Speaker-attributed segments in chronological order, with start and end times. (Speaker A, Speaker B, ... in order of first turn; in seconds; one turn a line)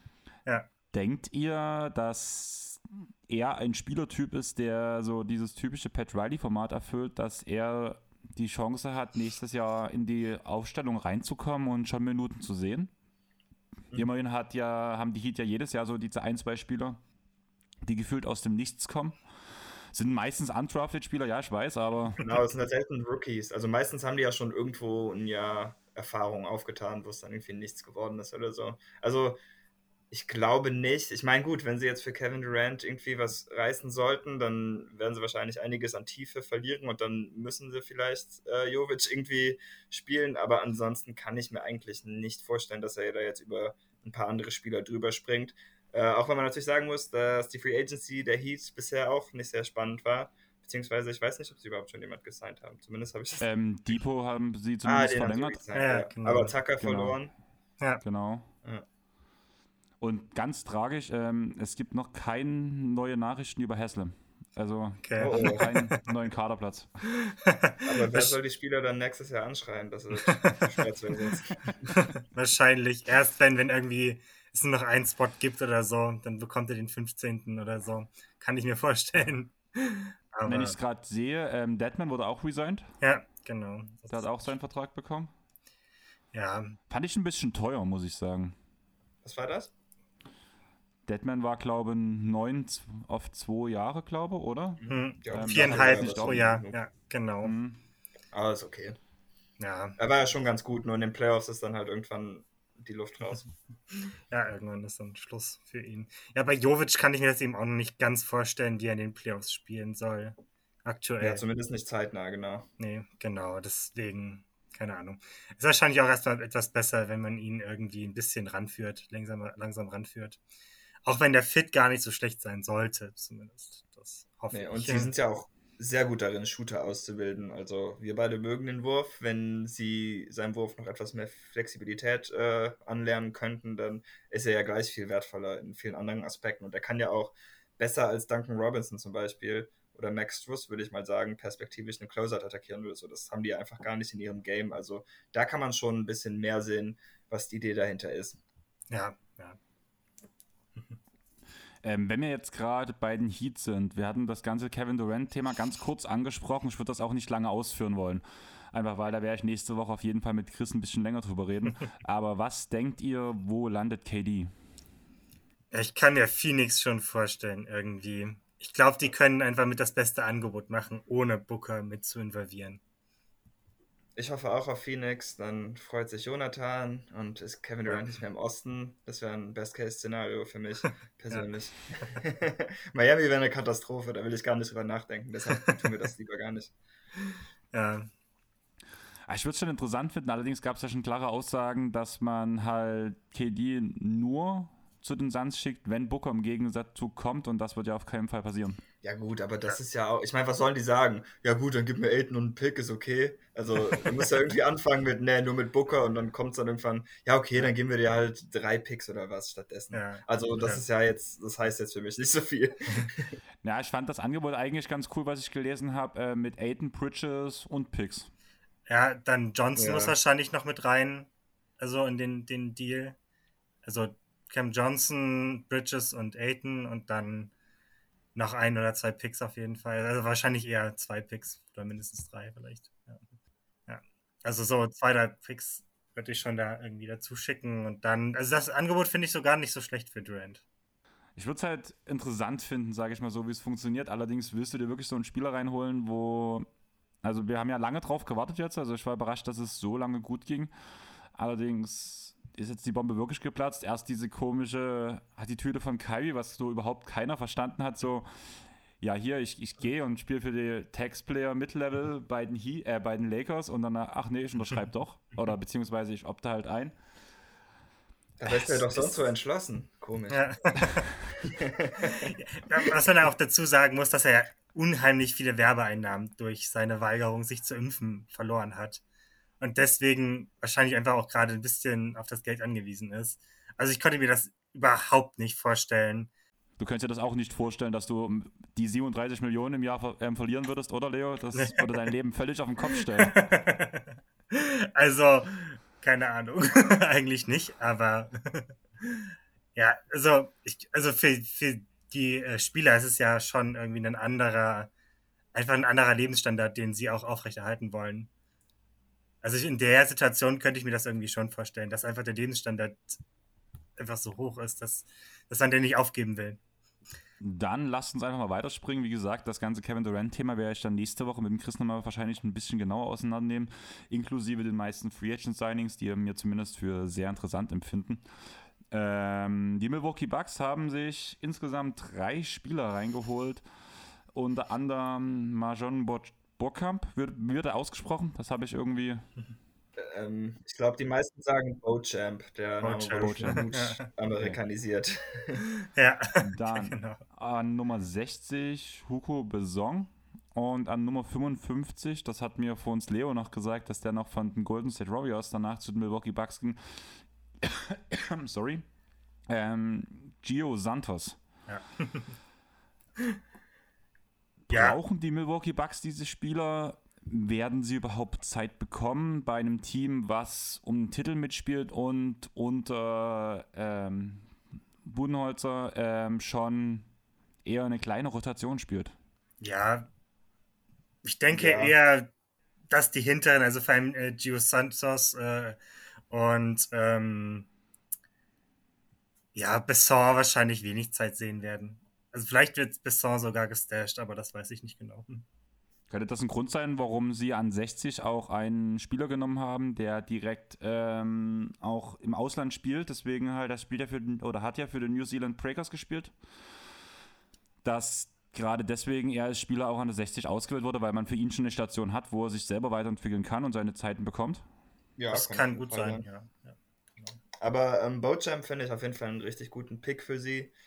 Speaker A: 0.9-12.9
Speaker A: 13.9-17.0
Speaker A: 17.9-19.2
Speaker A: 19.9-22.2
Speaker B: 22.2-29.4
Speaker B: 30.1-53.5
Speaker A: 53.4-55.6
Speaker B: 54.8-57.3
Speaker C: 55.7-56.5
Speaker A: 56.8-57.1
Speaker A: 58.0-58.5
Speaker A: 60.0-67.0
Speaker C: 65.0-66.0
Speaker B: 65.2-65.8
Speaker C: 67.2-68.3
Speaker B: 67.8-72.0
Speaker C: 70.2-70.6
Speaker C: 71.9-80.8
Speaker A: 80.5-82.9
Speaker C: 83.0-84.5
Speaker A: 84.1-85.3
Speaker C: 86.3-86.8
Speaker A: 86.9-88.5
Speaker B: 89.2-89.7
Speaker A: 91.1-96.5
Speaker B: 94.8-96.8
Speaker C: 94.9-97.5
Speaker A: 97.4-97.8
Speaker B: 98.3-99.0
Speaker C: 99.6-100.0
Speaker B: 100.0-103.4
Speaker C: 104.3-111.4
Speaker B: 111.2-112.7
Speaker C: 112.8-120.4
Speaker C: 121.0-125.1
Speaker B: 124.5-148.4
Speaker C: 148.9-149.6
Speaker A: 151.8-164.5
Speaker C: 165.7-172.8
Speaker B: 174.2-186.7
Speaker C: 185.5-185.8
Speaker C: 187.7-188.1
Speaker A: 189.3-198.8
Speaker B: 199.0-213.3
Speaker C: 209.9-210.8
Speaker A: 213.6-218.3
Speaker C: 218.9-223.2
Speaker B: 219.8-220.1
Speaker C: 223.8-227.5
Speaker C: 228.3-233.2
Speaker C: 233.9-240.6
Speaker A: 241.3-246.7
Speaker A: 247.2-250.7
Speaker A: 251.3-258.3
Speaker A: 259.0-266.9
Speaker B: 268.4-270.4
Speaker C: 268.5-269.1
Speaker C: 270.3-271.0
Speaker B: 271.4-272.3
Speaker C: 272.1-279.0
Speaker C: 279.6-286.3
Speaker A: 286.8-293.4
Speaker C: 291.5-292.1
Speaker C: 292.9-304.9
Speaker C: 305.5-308.3
Speaker C: 309.4-313.2
Speaker C: 314.0-316.6
Speaker A: 317.4-328.2
Speaker A: 328.9-333.6
Speaker A: 334.3-339.3
Speaker B: 340.0-345.6
Speaker C: 342.8-344.1
Speaker A: 343.2-343.7
Speaker C: 345.9-347.2
Speaker A: 346.4-358.9
Speaker A: 359.5-361.4
Speaker C: 361.7-362.4
Speaker A: 364.7-374.5
Speaker C: 364.7-365.0
Speaker A: 375.0-377.1
Speaker A: 377.6-379.1
Speaker C: 379.6-380.1
Speaker C: 381.2-382.3
Speaker B: 381.5-381.9
Speaker C: 382.9-385.8
Speaker C: 386.3-387.7
Speaker C: 389.5-395.4
Speaker A: 396.1-406.3
Speaker A: 407.8-414.6
Speaker B: 415.2-416.2
Speaker C: 415.3-417.4
Speaker B: 417.6-420.7